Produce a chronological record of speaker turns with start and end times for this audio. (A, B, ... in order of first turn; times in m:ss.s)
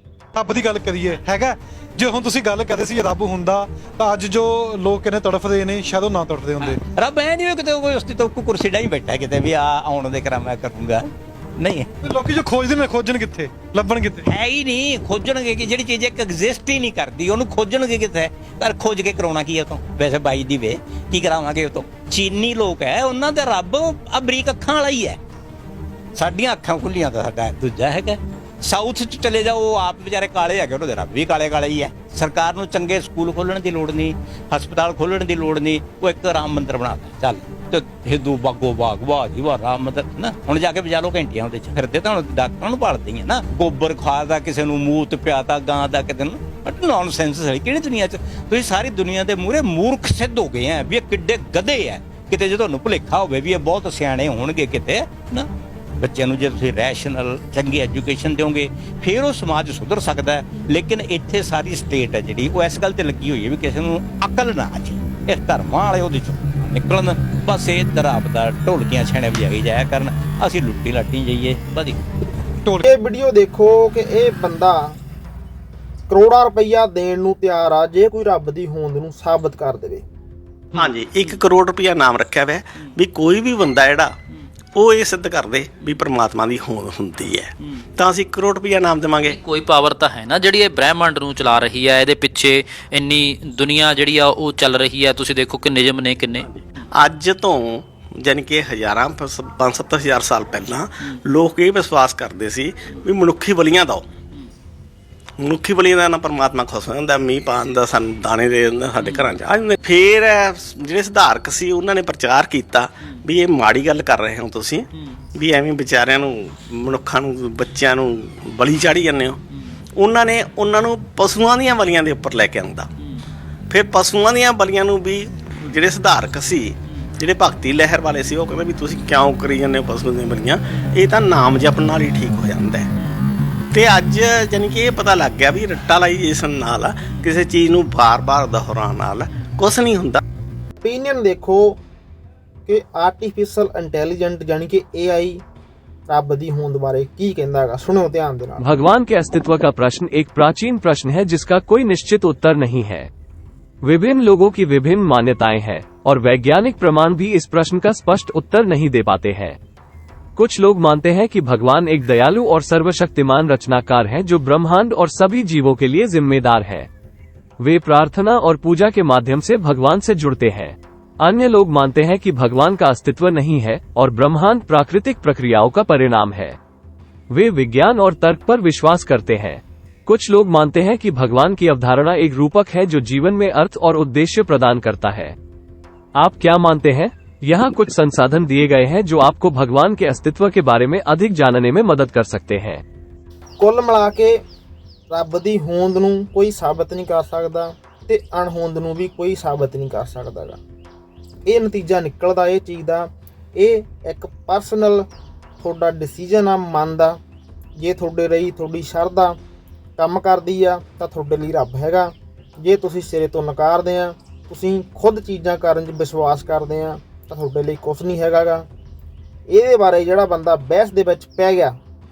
0:00.3-0:06.8 A
0:06.6-0:11.1 B
0:11.6-0:11.9 B
0:12.0-0:14.3 A
0:14.2-0:25.2 B
0:26.2-0:55.5 B
0:56.0-1:12.0 B
1:12.8-1:15.0 C
1:16.1-1:20.0 C
1:20.7-1:24.2 D
1:24.8-1:29.4 D
1:29.3-1:36.5 E
1:36.4-1:44.0 D
1:45.4-1:59.4 D
2:00.0-2:02.9 D
2:03.7-2:12.9 D
2:13.7-2:20.2 D
2:20.8-2:21.8 C
2:22.7-2:25.4 C
2:26.1-2:28.7 C
2:28.6-2:33.1 F
2:33.8-2:39.6 F
2:40.4-2:46.9 F
2:47.6-2:56.6 F
2:57.3-3:05.4 F
3:06.2-3:12.8 F
3:13.6-3:14.4 C
3:15.1-3:20.6 C
3:21.5-3:25.1 C
3:25.6-3:27.2 C
3:27.8-3:29.4 C
3:30.0-3:38.7 C
3:39.5-3:41.8 C